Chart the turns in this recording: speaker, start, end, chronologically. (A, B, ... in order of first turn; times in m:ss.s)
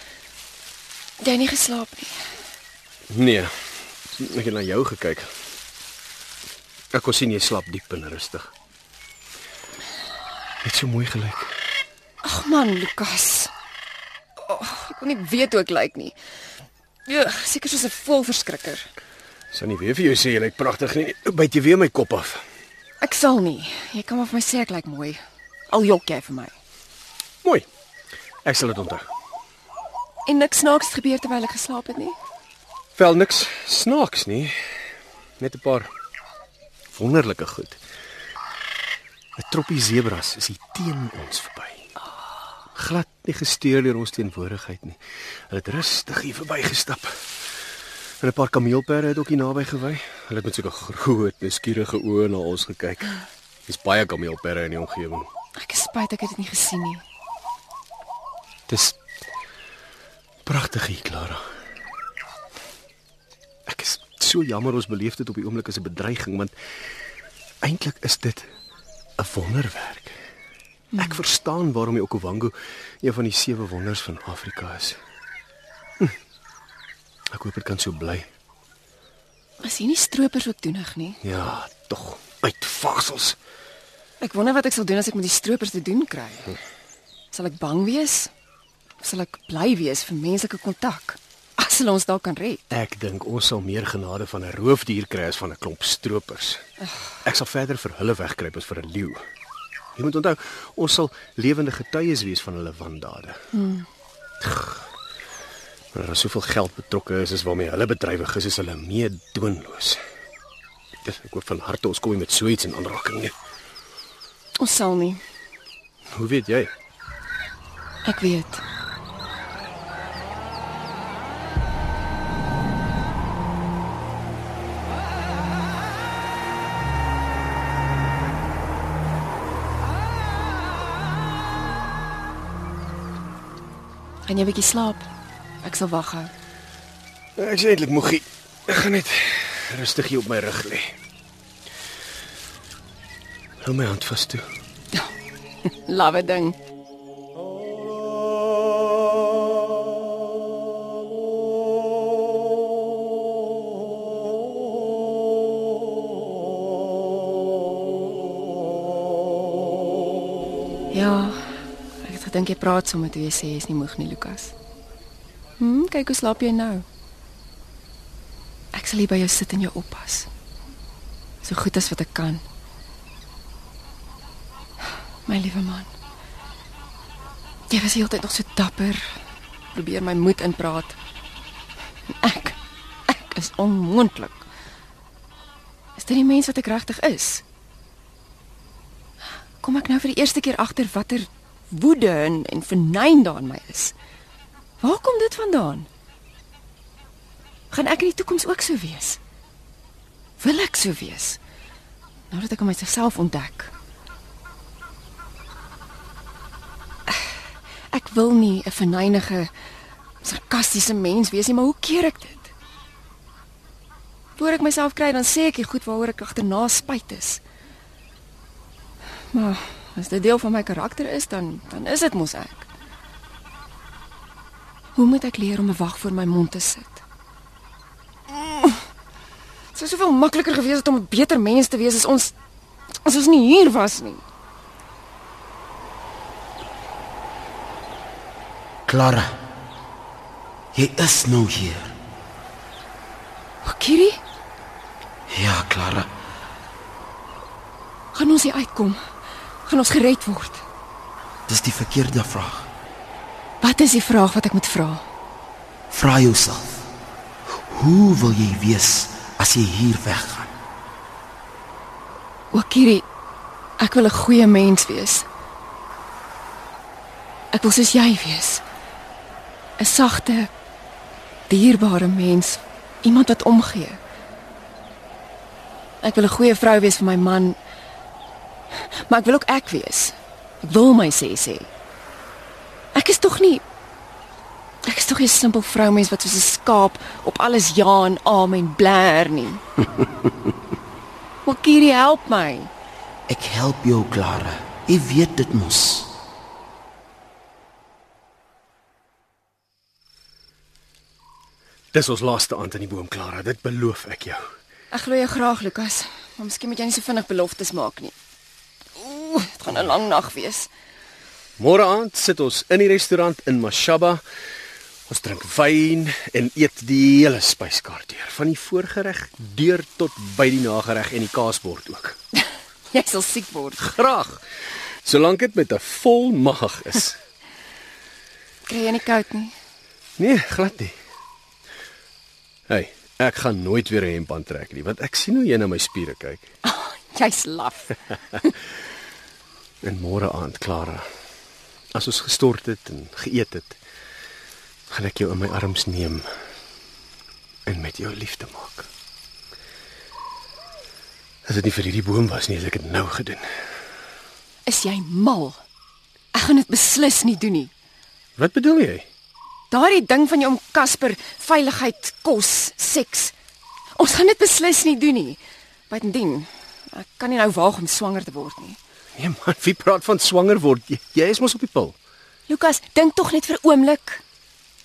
0:01.2-0:02.3 A
0:03.1-0:05.3 B
0:06.9-0:08.5 B
0:10.6-0:11.6 B
0:12.2-0:13.5 A
0:14.4-0:16.1 A
0:17.1-0:18.9 A
0:19.5-0:22.4 B
0:23.0-0:26.5 A
0:28.4-0:29.1 B
0:30.2-0:32.2 A
0:33.0-0:34.7 B
0:35.4-0:35.9 B
0:36.9-0:37.8 B
0:39.4-0:41.8 B
0:42.7-0:47.3 B
0:48.2-0:53.1 B
0:53.7-0:55.3 B
0:55.6-0:57.0 A
0:58.7-0:59.0 B
1:00.4-1:01.4 B
1:03.7-1:06.5 B
1:07.6-1:08.5 B
1:09.2-1:10.2 B
1:10.9-1:11.2 A
1:11.0-1:15.0 B
1:17.3-1:18.3 B
1:19.6-1:21.2 A
1:21.2-1:23.4 B
1:24.2-1:26.5 A
1:27.3-1:28.3 A
1:29.0-1:32.6 A
1:32.7-1:36.6 B
1:37.2-1:39.2 B
1:40.0-1:43.5 B
1:43.5-1:43.8 A
1:44.4-1:44.9 B
1:45.9-1:50.0 B
1:51.0-1:53.3 B
1:54.6-1:55.2 A
1:56.1-1:56.7 B
1:58.0-1:58.6 A
2:14.3-2:15.1 A
2:15.6-2:16.3 A
2:17.4-2:20.9 B
2:23.6-2:24.5 B
2:25.8-2:26.6 A
2:40.9-2:44.5 A
2:45.6-2:46.8 A
2:48.7-2:50.3 A
2:51.4-2:52.4 A
2:55.2-2:55.9 A
2:57.7-2:59.1 A
2:59.7-3:01.0 A
3:02.2-3:02.6 A
3:03.1-3:04.4 A
3:06.0-3:07.4 A
3:09.6-3:13.9 A
3:14.8-3:15.9 A
3:17.7-3:19.2 A
3:20.4-3:21.4 A
3:22.3-3:23.7 A
3:27.1-3:27.4 A
3:27.9-3:29.5 A
3:30.2-3:32.5 A
3:34.4-3:37.4 A
3:39.3-3:42.7 A
3:45.0-3:47.0 A
3:48.3-3:48.8 A
3:49.7-3:52.3 A
3:53.0-3:54.2 A
3:58.9-3:59.3 C
4:00.7-4:01.9 C
4:03.6-4:04.2 A
4:05.3-4:06.1 C
4:08.1-4:09.0 A
4:09.6-4:10.6 A
4:11.5-4:12.7 C
4:13.6-4:15.0 A
4:15.9-4:16.8 C
4:17.7-4:20.5 C
4:22.5-4:23.0 A
4:23.8-4:25.2 A
4:27.5-4:28.6 A
4:29.8-4:30.5 A
4:31.5-4:34.0 A
4:36.0-4:37.6 A
4:38.7-4:41.7 A
4:42.9-4:43.6 A
4:44.8-4:49.6 A
4:51.4-4:52.7 A
4:53.3-4:56.1 C
5:01.9-5:04.5 B
5:04.9-5:08.1 A
5:09.0-5:10.7 A
5:11.6-5:14.2 B
5:15.1-5:22.2 B
5:22.9-5:23.9 A
5:23.8-5:24.4 B
5:25.0-5:27.2 B
5:28.7-5:29.5 A
5:30.2-5:31.0 B
5:32.7-5:36.5 B
5:36.6-5:38.5 A
5:39.8-5:41.0 B
5:41.9-5:43.8 B
5:44.9-5:46.3 B
5:47.6-5:48.9 B
5:51.4-5:53.7 B
5:54.6-5:55.6 A
5:56.3-5:57.7 A
5:58.4-5:59.1 B
5:59.7-6:03.3 A
6:04.0-6:08.8 A
6:09.2-6:11.9 B
6:12.5-6:14.2 A